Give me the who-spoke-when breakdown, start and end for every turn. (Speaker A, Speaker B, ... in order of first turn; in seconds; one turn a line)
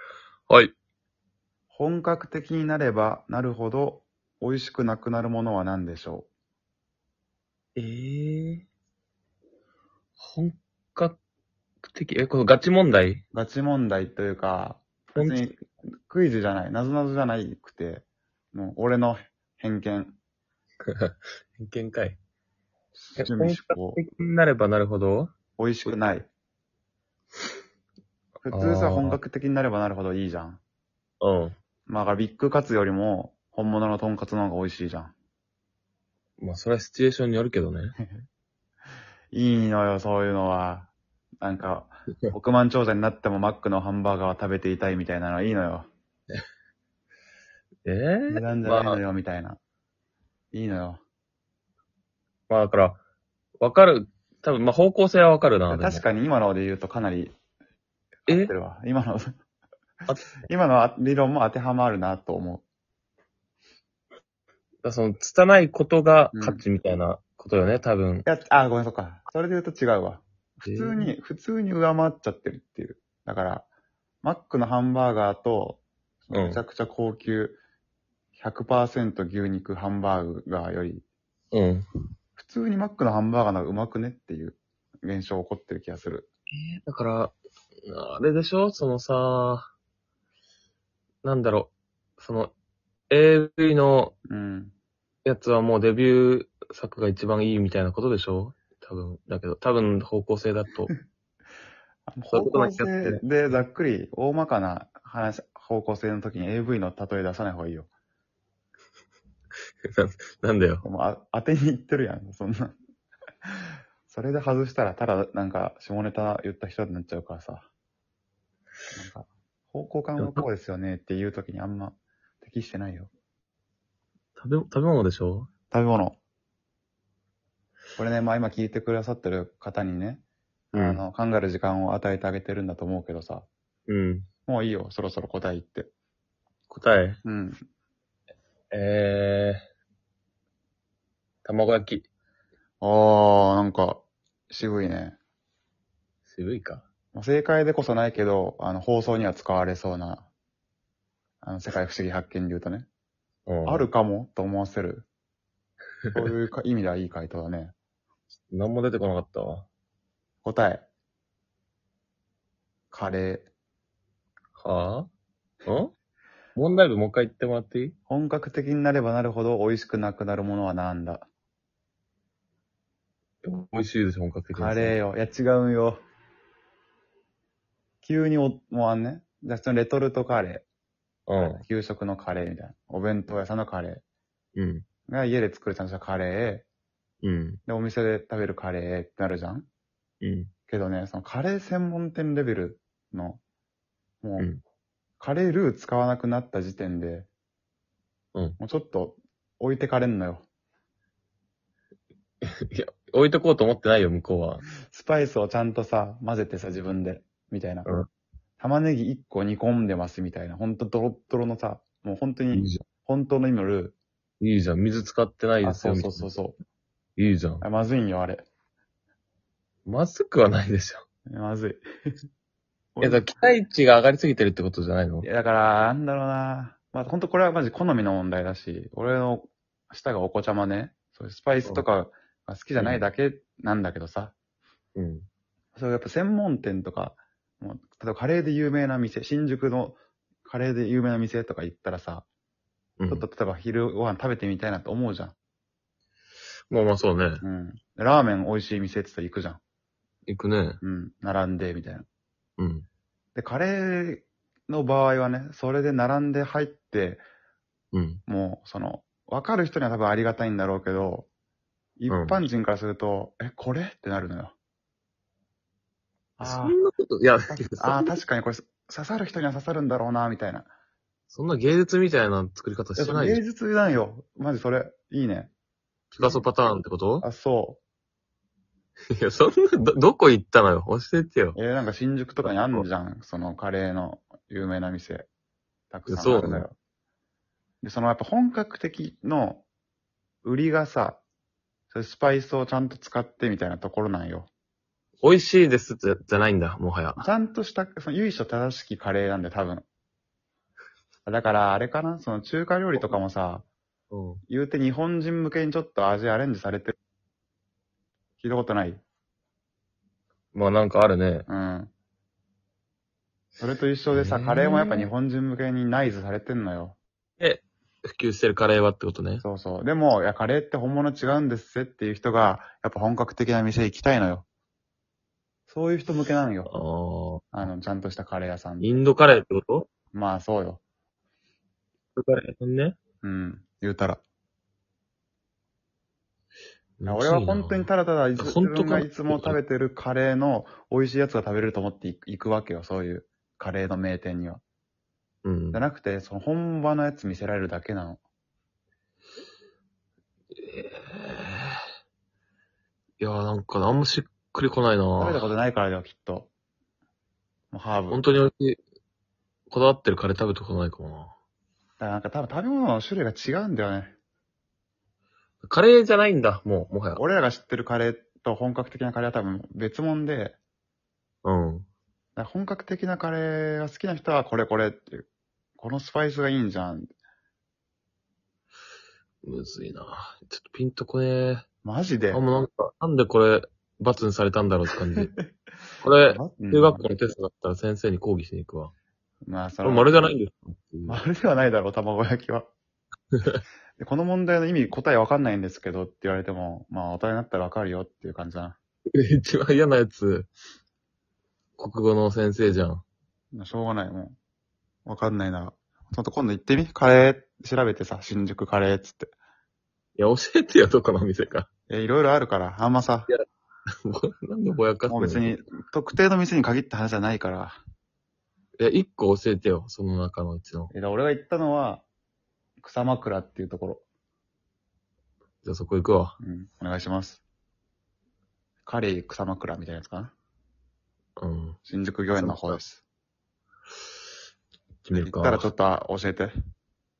Speaker A: 0.5-0.7
Speaker B: 1.7-6.3
Speaker A: 7.8-8.7
Speaker A: 10.2-11.2
Speaker A: 11.9-13.2
Speaker B: 13.3-20.2
Speaker A: 15.2-15.6
Speaker A: 20.8-22.2
Speaker B: 22.9-24.0
Speaker A: 23.2-25.3
Speaker B: 25.6-26.3
Speaker B: 28.4-30.6
Speaker A: 28.5-29.2
Speaker A: 31.2-31.6
Speaker B: 31.9-35.1
Speaker A: 36.4-38.0
Speaker B: 39.3-45.9
Speaker A: 47.8-49.0
Speaker B: 48.3-49.6
Speaker B: 50.5-51.0
Speaker A: 52.5-53.0
Speaker A: 53.6-56.0
Speaker B: 55.7-57.3
Speaker A: 58.3-58.5
Speaker B: 58.3-59.3
Speaker A: 60.1-60.3
Speaker B: 60.4-62.6
Speaker A: 64.8-68.2
Speaker B: 66.3-66.6
Speaker B: 68.2-73.7
Speaker A: 70.7-71.1
Speaker B: 74.2-77.6
Speaker A: 76.3-76.6
Speaker B: 78.3-81.0
Speaker A: 81.5-81.9
Speaker B: 82.3-86.3
Speaker A: 86.5-87.3
Speaker A: 87.9-89.7
Speaker A: 91.2-92.5
Speaker A: 93.1-94.1
Speaker B: 94.3-94.7
Speaker A: 95.2-100.9
Speaker B: 102.1-107.9
Speaker A: 102.3-103.2
Speaker A: 109.8-110.8
Speaker B: 110.8-112.8
Speaker B: 114.0-117.7
Speaker B: 118.9-123.1
Speaker A: 120.2-120.5
Speaker A: 124.4-125.5
Speaker B: 125.7-126.2
Speaker B: 128.0-133.5
Speaker A: 130.7-131.0
Speaker A: 133.9-134.3
Speaker B: 134.5-135.9
Speaker A: 136.7-137.2
Speaker B: 137.2-137.6
Speaker A: 138.7-139.6
Speaker A: 141.4-142.1
Speaker B: 142.8-145.2
Speaker A: 146.3-146.8
Speaker B: 147.1-150.3
Speaker B: 151.4-152.8
Speaker A: 153.5-153.9
Speaker B: 153.6-155.1
Speaker B: 156.1-157.7
Speaker A: 158.5-159.7
Speaker B: 160.4-160.8
Speaker B: 162.9-163.5
Speaker A: 164.6-165.1
Speaker A: 165.7-165.9
Speaker A: 166.6-167.9
Speaker B: 168.1-171.3
Speaker A: 173.4-175.0
Speaker B: 174.5-176.0
Speaker B: 178.0-180.6
Speaker A: 181.3-181.6
Speaker B: 181.4-184.0
Speaker A: 184.6-184.8
Speaker B: 185.1-186.6
Speaker A: 187.2-187.6
Speaker B: 187.7-189.7
Speaker A: 190.2-190.5
Speaker B: 190.7-193.4
Speaker B: 194.2-194.5
Speaker B: 195.2-197.3
Speaker B: 198.6-200.4
Speaker A: 202.4-204.6
Speaker B: 204.8-207.9
Speaker B: 208.6-213.9
Speaker A: 212.5-212.8
Speaker A: 214.4-216.3
Speaker B: 215.6-216.6
Speaker A: 217.2-217.6
Speaker B: 217.6-218.4
Speaker A: 219.8-221.0
Speaker B: 221.3-221.8
Speaker B: 222.9-223.3
Speaker A: 223.0-225.3
Speaker B: 225.2-234.3
Speaker A: 232.8-233.1
Speaker A: 234.9-235.3
Speaker B: 235.8-242.2
Speaker A: 243.0-243.3
Speaker B: 243.1-245.3
Speaker A: 246.7-247.4
Speaker B: 247.4-249.6
Speaker A: 250.3-250.8
Speaker B: 250.8-252.1
Speaker A: 252.6-252.8
Speaker B: 253.3-257.2
Speaker A: 257.9-258.2
Speaker B: 258.3-261.3
Speaker B: 262.0-264.5
Speaker A: 262.1-262.4
Speaker B: 266.4-266.8
Speaker A: 266.4-268.1
Speaker B: 267.5-270.7
Speaker A: 271.3-273.4
Speaker B: 273.0-275.5
Speaker A: 276.1-277.2
Speaker B: 276.2-276.4
Speaker B: 277.2-277.8
Speaker A: 279.2-281.6
Speaker B: 281.6-285.3
Speaker A: 282.4-282.9
Speaker B: 285.9-286.8
Speaker A: 286.1-286.7
Speaker B: 287.8-289.6
Speaker B: 290.4-291.2
Speaker B: 291.9-294.5
Speaker A: 295.2-297.2
Speaker B: 297.2-299.9
Speaker B: 301.2-303.6
Speaker A: 304.1-304.4
Speaker B: 304.5-307.0
Speaker B: 308.4-309.0
Speaker A: 310.5-311.5
Speaker B: 311.5-311.9
Speaker B: 313.6-317.0
Speaker A: 314.1-315.1
Speaker A: 317.4-319.4
Speaker B: 319.4-324.4
Speaker B: 325.7-326.7
Speaker A: 326.7-327.7
Speaker B: 327.5-329.0
Speaker A: 328.8-329.9
Speaker B: 330.1-330.8
Speaker A: 332.1-333.0
Speaker B: 333.2-334.2
Speaker A: 337.0-339.6
Speaker B: 337.1-344.6
Speaker A: 345.4-345.8
Speaker B: 345.7-348.2
Speaker A: 350.6-351.8
Speaker A: 353.2-355.5
Speaker B: 355.2-356.5
Speaker B: 357.7-358.4
Speaker A: 358.1-358.8
Speaker A: 359.7-361.3
Speaker B: 362.0-364.1
Speaker A: 365.6-367.2
Speaker B: 367.2-370.6
Speaker A: 371.4-371.9
Speaker B: 372.4-375.2
Speaker B: 375.8-377.1
Speaker A: 379.4-381.6
Speaker B: 381.8-382.7
Speaker A: 382.3-385.3
Speaker A: 386.0-388.9
Speaker B: 386.3-387.1
Speaker B: 389.4-390.3
Speaker A: 389.8-391.2
Speaker B: 391.1-392.7
Speaker A: 393.4-393.6
Speaker B: 394.0-398.8
Speaker A: 399.1-400.5
Speaker A: 401.8-403.0
Speaker B: 403.5-404.4
Speaker B: 405.1-409.3
Speaker A: 410.2-411.7
Speaker B: 411.9-413.3
Speaker A: 414.0-415.5
Speaker B: 415.1-417.8
Speaker A: 418.8-420.9
Speaker B: 420.9-422.0
Speaker B: 422.8-424.0
Speaker A: 425.6-426.4
Speaker B: 426.4-427.4
Speaker B: 428.9-430.3
Speaker A: 431.4-431.8
Speaker B: 431.9-433.0
Speaker A: 432.3-432.8
Speaker A: 435.0-435.7
Speaker B: 435.1-436.5